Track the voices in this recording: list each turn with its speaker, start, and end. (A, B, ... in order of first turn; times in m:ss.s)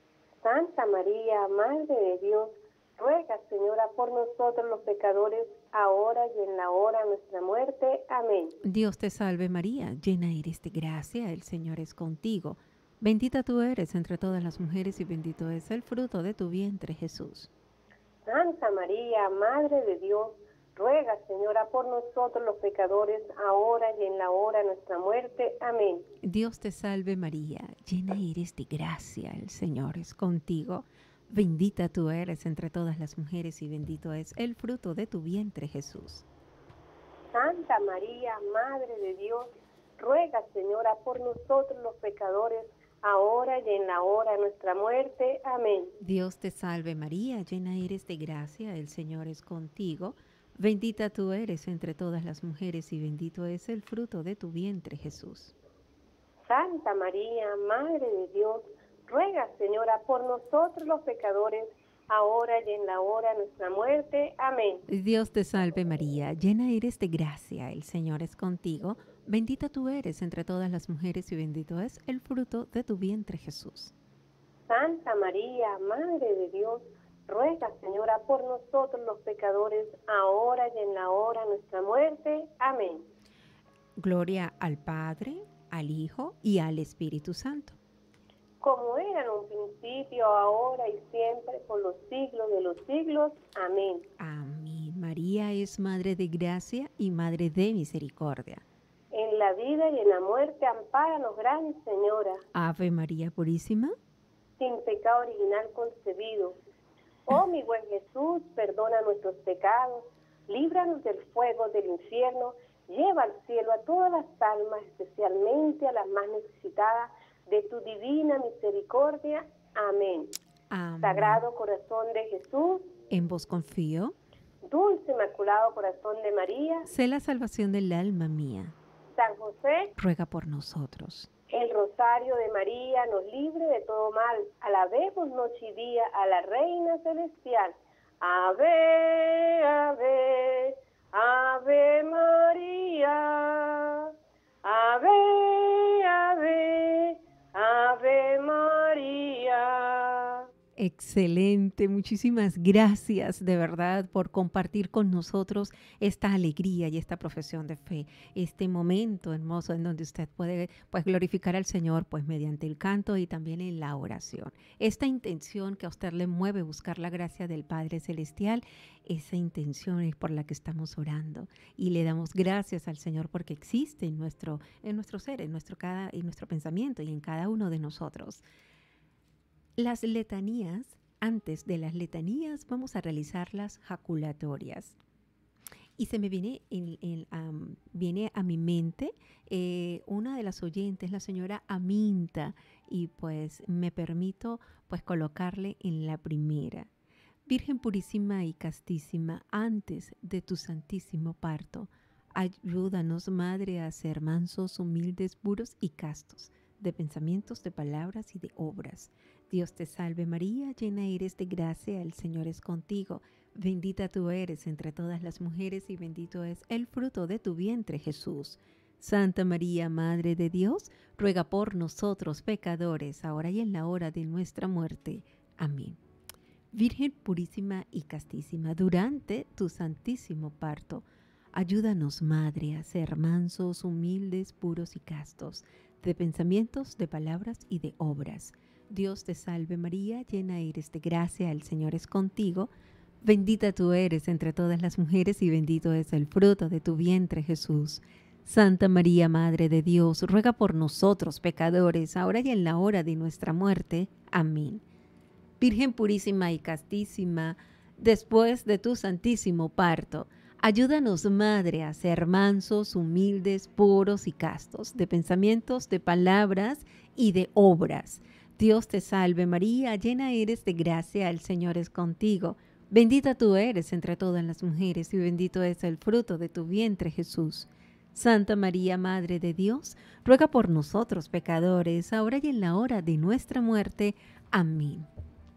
0:00.4-0:08.6 A
0:08.6-0:17.5 B
0:18.2-0:26.1 A
0:26.2-0:36.2 B
0:37.3-0:45.9 A
0:46.0-0:55.5 B
0:56.4-1:04.8 A
1:04.9-1:13.9 B
1:14.7-1:23.0 A
1:24.0-1:27.8 B
1:28.6-1:34.1 A
1:34.2-1:38.6 B
1:39.1-1:42.4 A
1:42.5-1:43.9 B
1:44.6-1:46.6 A
1:47.3-2:00.3 A
2:00.7-2:01.4 B
2:01.0-2:02.9 A
2:03.1-2:04.2 B
2:04.6-2:06.9 A
2:06.8-2:08.7 B
2:09.2-2:09.9 A
2:10.0-2:11.3 B
2:11.5-2:24.1 A
2:24.6-2:30.5 A
2:30.8-2:58.4 B
2:59.8-3:05.0 B
3:06.0-3:16.9 B
3:17.4-3:46.0 B
3:46.7-4:02.7 B
4:03.2-4:14.8 B
4:15.6-4:45.1 B